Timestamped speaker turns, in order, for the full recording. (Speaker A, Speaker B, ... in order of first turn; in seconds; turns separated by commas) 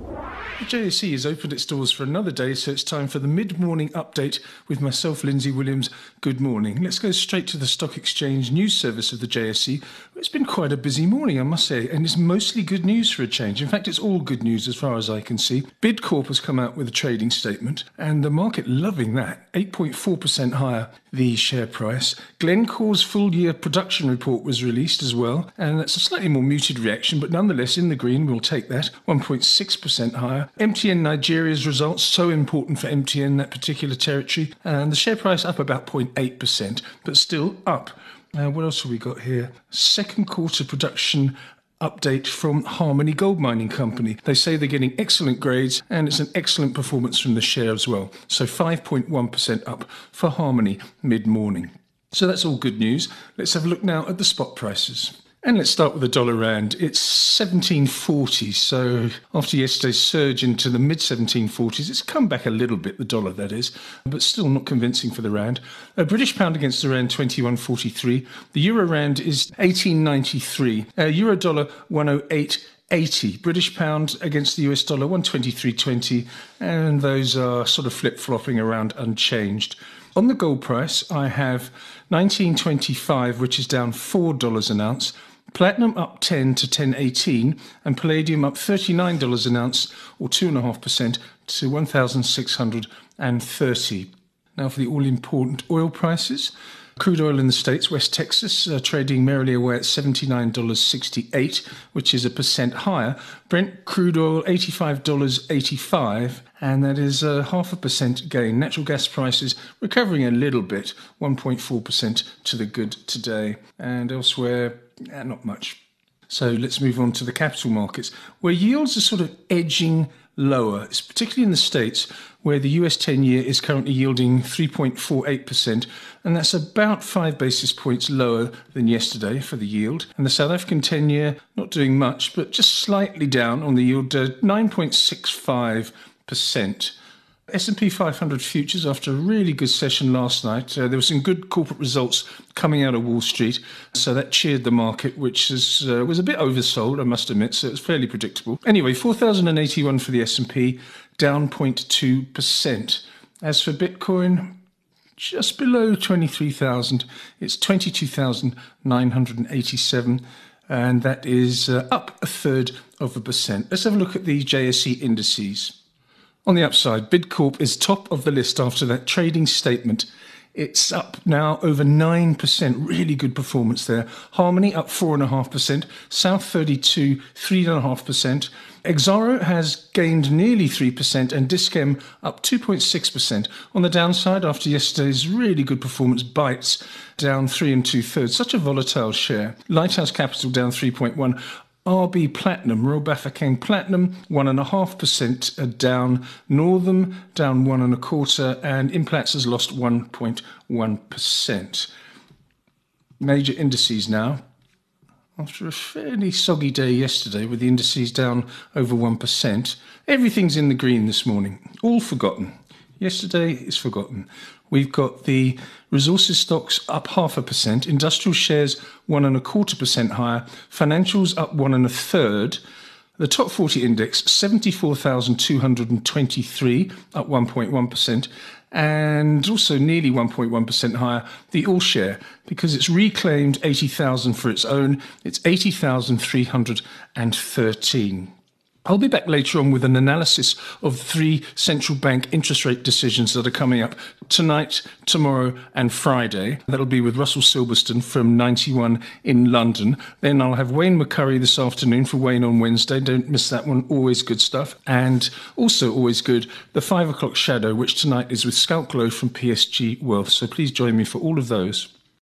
Speaker A: 0.6-137.0, Speaker A: 137.5-154.5, Speaker A: 155.2-165.8, Speaker A: 166.4-201.9, Speaker A: 203.2-204.4, Speaker A: 205.3-222.6, Speaker A: 223.2-238.3, Speaker A: 238.8-261.9